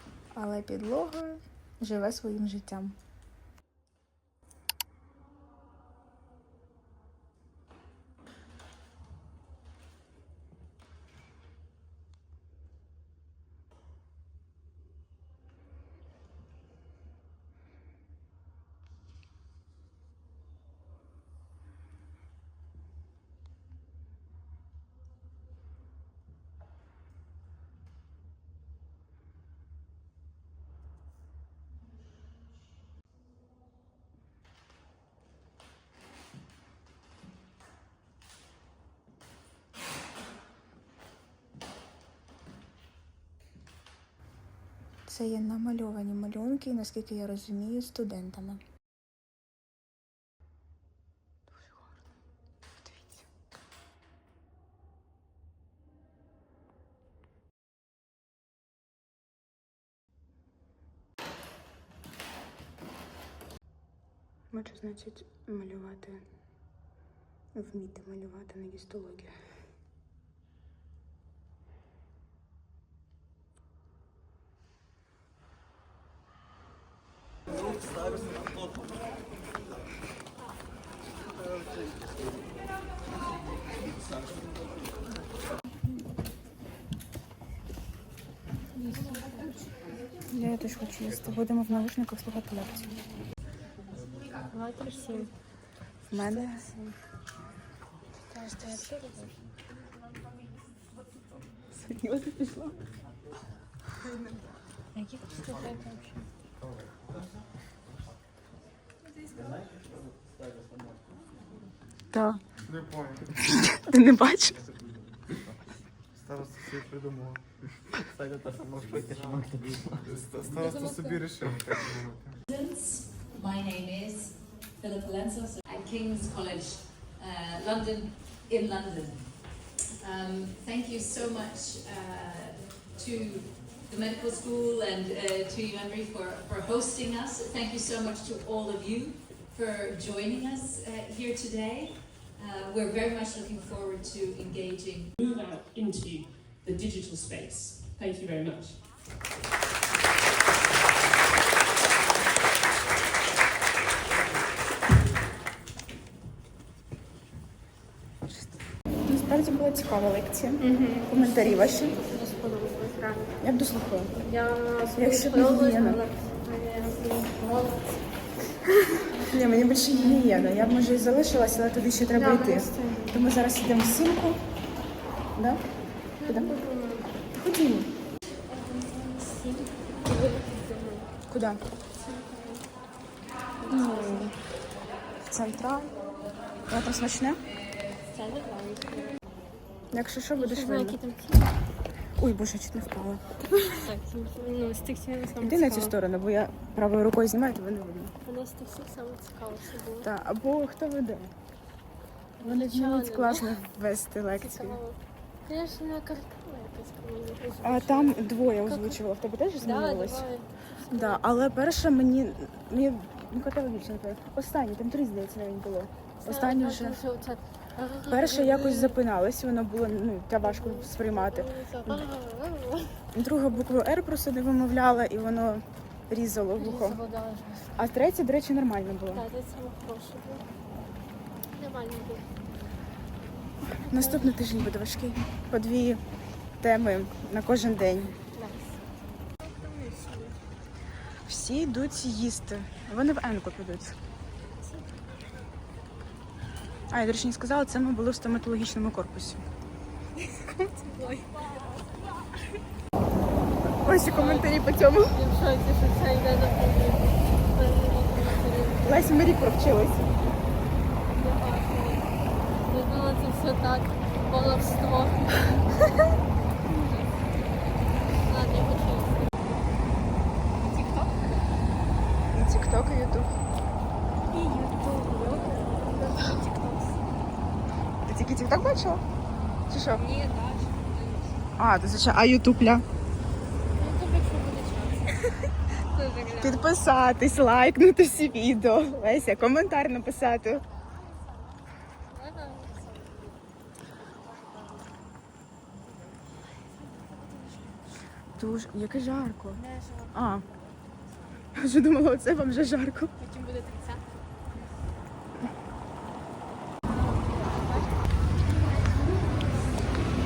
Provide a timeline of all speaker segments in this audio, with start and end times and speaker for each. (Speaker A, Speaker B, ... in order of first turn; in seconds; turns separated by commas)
Speaker A: 0.3-3.0, Speaker A: 45.1-48.6, Speaker A: 51.5-51.9, Speaker A: 52.9-53.2, Speaker A: 64.5-66.2, Speaker A: 67.5-69.3, Speaker A: 90.3-93.0, Speaker B: 94.4-95.3, Speaker A: 96.1-96.7, Speaker B: 96.2-96.9, Speaker B: 98.3-99.3, Speaker A: 98.6-99.0, Speaker A: 101.7-102.8, Speaker B: 105.0-106.2, Speaker C: 106.7-107.2, Speaker A: 112.1-112.4, Speaker C: 112.7-113.3, Speaker A: 113.5-114.6, Speaker C: 116.1-117.5, Speaker C: 118.7-122.4, Speaker B: 120.6-121.2, Speaker D: 122.5-145.1, Speaker E: 145.2-148.9, Speaker A: 159.0-161.9, Speaker B: 160.6-163.4, Speaker A: 163.4-164.1, Speaker B: 164.1-168.2, Speaker A: 164.9-166.0, Speaker A: 169.2-174.4, Speaker B: 172.0-173.1, Speaker A: 175.3-176.6, Speaker B: 176.2-177.1, Speaker A: 177.3-177.9, Speaker B: 178.5-181.1, Speaker A: 181.3-181.6, Speaker B: 181.9-182.7, Speaker B: 183.6-184.3, Speaker A: 183.7-184.4, Speaker A: 185.3-185.9, Speaker A: 186.7-187.4, Speaker B: 188.1-189.2, Speaker A: 189.9-191.0, Speaker B: 190.4-191.6, Speaker A: 192.2-193.2, Speaker B: 193.7-195.9, Speaker A: 195.4-198.1, Speaker B: 198.2-200.1, Speaker A: 200.0-201.3, Speaker B: 202.4-203.7, Speaker A: 202.4-204.8, Speaker B: 204.3-209.0, Speaker A: 207.6-210.2, Speaker B: 209.6-211.2, Speaker A: 210.9-217.0, Speaker B: 216.2-219.0, Speaker A: 218.1-222.0, Speaker B: 220.4-223.0, Speaker A: 223.1-227.0, Speaker B: 226.6-227.8, Speaker A: 227.8-229.2, Speaker B: 229.1-230.5, Speaker B: 231.5-232.5, Speaker A: 233.6-236.0, Speaker B: 233.9-234.4, Speaker A: 236.6-238.2, Speaker B: 238.3-238.8, Speaker B: 239.4-240.4, Speaker A: 241.2-244.0, Speaker A: 246.9-249.4, Speaker B: 250.2-251.5, Speaker A: 253.8-255.2, Speaker B: 254.0-254.5, Speaker B: 255.1-258.9, Speaker A: 258.8-260.1, Speaker B: 261.1-262.1, Speaker B: 262.7-266.1, Speaker B: 266.6-267.1, Speaker B: 268.2-269.7, Speaker B: 270.6-271.5, Speaker A: 272.3-273.3, Speaker B: 274.3-277.0, Speaker A: 278.1-279.0, Speaker A: 279.7-280.0, Speaker B: 279.9-281.5, Speaker A: 281.6-282.8, Speaker B: 283.7-285.3, Speaker B: 285.9-286.7, Speaker A: 286.4-290.6, Speaker B: 292.1-293.1, Speaker A: 298.4-299.6, Speaker B: 299.5-300.2, Speaker A: 300.1-300.4, Speaker A: 301.6-303.1, Speaker B: 303.2-304.0, Speaker B: 306.9-307.9